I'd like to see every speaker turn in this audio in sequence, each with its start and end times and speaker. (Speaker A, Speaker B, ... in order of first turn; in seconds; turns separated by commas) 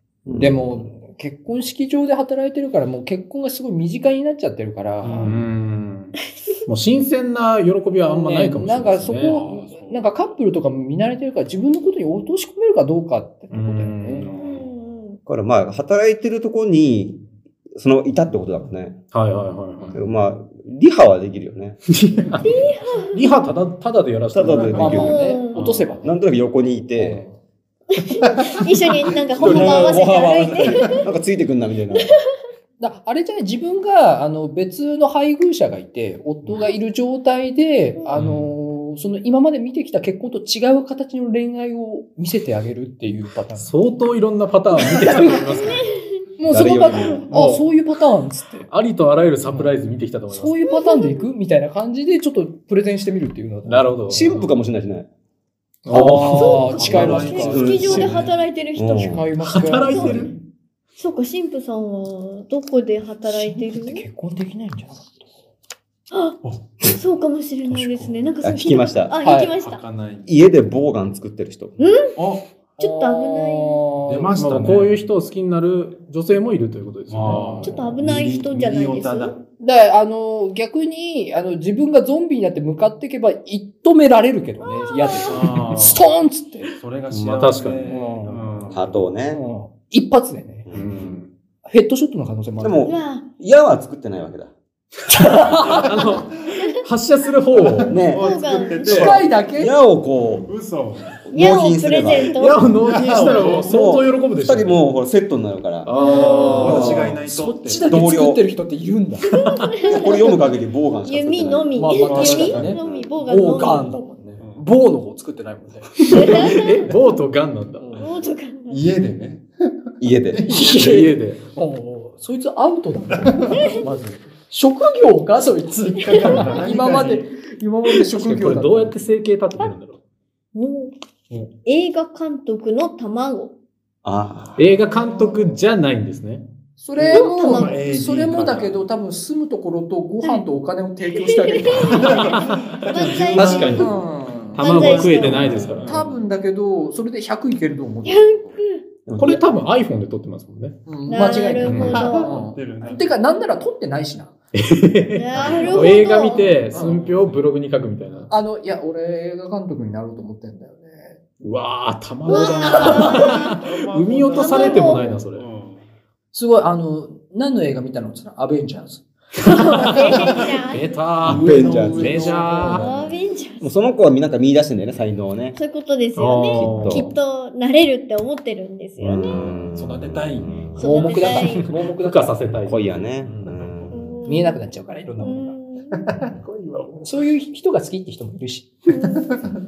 Speaker A: 0.2-0.8, Speaker B: 0.3-5.3, Speaker C: 5.0-5.4, Speaker D: 5.0-6.1, Speaker D: 6.7-9.4, Speaker B: 8.1-14.3, Speaker C: 9.2-10.2, Speaker D: 13.5-14.4, Speaker E: 14.3-15.2, Speaker A: 15.2-17.2, Speaker A: 17.7-19.0, Speaker D: 19.1-20.0, Speaker A: 19.9-21.8, Speaker D: 21.9-22.6, Speaker E: 22.4-23.2, Speaker D: 23.1-25.2, Speaker A: 24.3-25.2, Speaker B: 24.7-26.1, Speaker E: 24.9-25.7, Speaker C: 25.5-25.9, Speaker A: 26.0-27.2, Speaker B: 26.9-27.4, Speaker E: 27.9-31.0, Speaker A: 29.4-32.1, Speaker C: 29.4-29.9, Speaker E: 31.9-32.3, Speaker B: 32.8-43.8, Speaker C: 38.1-38.5, Speaker D: 43.6-45.9, Speaker B: 44.8-45.6, Speaker E: 45.7-46.0, Speaker B: 46.4-48.7, Speaker A: 46.5-47.2, Speaker D: 47.3-47.6, Speaker D: 48.7-50.6, Speaker B: 50.3-54.3, Speaker E: 50.6-51.3, Speaker D: 53.6-54.5, Speaker A: 54.1-55.1, Speaker D: 55.8-56.8, Speaker B: 55.9-57.7, Speaker E: 56.2-59.3, Speaker C: 56.7-58.4, Speaker A: 56.9-58.2, Speaker A: 58.8-59.2, Speaker B: 59.0-60.3, Speaker D: 59.4-60.3, Speaker E: 59.9-60.2, Speaker E: 61.0-64.0, Speaker B: 63.2-65.2, Speaker E: 66.1-69.8, Speaker C: 66.4-67.0, Speaker C: 67.7-68.1, Speaker A: 68.4-69.2, Speaker B: 69.2-69.5, Speaker C: 69.5-70.3, Speaker A: 70.2-71.7, Speaker E: 71.8-72.2, Speaker C: 72.2-72.5, Speaker E: 72.8-73.9, Speaker B: 72.8-74.3, Speaker C: 74.0-75.0, Speaker D: 74.3-77.9, Speaker C: 77.1-79.4, Speaker B: 77.3-77.9, Speaker E: 77.6-79.3, Speaker B: 79.6-86.7, Speaker E: 84.6-85.5, Speaker C: 85.2-86.0, Speaker C: 86.7-89.1, Speaker D: 87.1-88.4, Speaker B: 87.8-88.4, Speaker A: 88.7-89.4, Speaker B: 89.3-90.7, Speaker A: 90.7-91.0, Speaker D: 90.7-91.3, Speaker B: 91.6-92.9, Speaker A: 92.6-94.5, Speaker E: 92.8-93.2, Speaker B: 95.1-95.9, Speaker D: 95.2-98.0, Speaker C: 97.6-99.2, Speaker A: 97.9-98.3, Speaker E: 98.1-99.1, Speaker B: 98.8-99.8, Speaker A: 98.8-100.5, Speaker C: 100.4-101.2, Speaker A: 101.2-102.7, Speaker E: 101.3-102.8, Speaker D: 102.3-104.8, Speaker C: 102.8-103.8, Speaker A: 103.5-105.9, Speaker D: 105.8-107.1, Speaker E: 106.0-106.8, Speaker B: 106.0-109.4, Speaker C: 106.4-108.1, Speaker A: 106.6-107.1, Speaker A: 107.9-108.4, Speaker D: 109.3-109.6, Speaker E: 109.3-110.4, Speaker A: 109.9-113.1, Speaker E: 111.0-114.0, Speaker B: 111.7-116.5, Speaker C: 112.0-112.7, Speaker D: 116.0-118.0, Speaker E: 116.1-116.9, Speaker B: 117.8-118.1, Speaker E: 118.0-118.8, Speaker C: 118.7-119.5, Speaker A: 120.0-120.5, Speaker C: 120.3-120.8, Speaker B: 120.5-129.1, Speaker D: 120.5-121.4, Speaker C: 123.2-123.7, Speaker C: 126.0-127.3, Speaker E: 126.1-126.5, Speaker D: 128.1-130.0, Speaker E: 130.5-130.9, Speaker E: 131.6-133.5, Speaker A: 134.0-134.7, Speaker D: 134.6-136.4, Speaker B: 136.8-142.4, Speaker C: 137.0-138.9, Speaker E: 137.1-137.8, Speaker E: 141.1-144.0, Speaker C: 141.8-143.9, Speaker D: 141.9-143.9, Speaker A: 143.3-143.8, Speaker B: 143.8-148.6, Speaker E: 144.6-145.7, Speaker D: 144.6-146.0, Speaker C: 144.9-146.2, Speaker E: 148.0-148.8, Speaker A: 149.1-149.4, Speaker D: 149.2-150.8, Speaker B: 150.9-154.3, Speaker E: 151.1-152.4, Speaker C: 151.6-153.2, Speaker D: 151.7-152.0, Speaker D: 154.5-158.3, Speaker E: 155.1-156.7, Speaker C: 155.3-157.5, Speaker B: 158.3-161.2, Speaker D: 161.4-165.4, Speaker E: 162.3-163.6, Speaker B: 162.3-163.3, Speaker C: 162.8-165.8, Speaker E: 164.3-165.2, Speaker B: 166.3-169.0, Speaker D: 169.4-172.8, Speaker E: 169.4-171.0, Speaker C: 169.8-170.4, Speaker C: 171.2-172.9, Speaker A: 171.2-172.2, Speaker B: 171.5-173.1, Speaker E: 172.7-173.7, Speaker A: 173.6-175.6, Speaker E: 175.6-179.7, Speaker D: 176.2-177.1, Speaker A: 176.5-177.1, Speaker A: 179.0-180.8, Speaker C: 179.1-181.3, Speaker E: 180.8-181.7, Speaker B: 180.8-182.4, Speaker D: 181.2-182.9, Speaker A: 182.7-184.2, Speaker C: 183.2-184.0, Speaker E: 183.9-184.6, Speaker B: 184.2-185.6, Speaker E: 185.2-186.0, Speaker C: 186.1-187.1, Speaker D: 186.6-186.8, Speaker B: 187.0-188.9, Speaker C: 188.9-189.5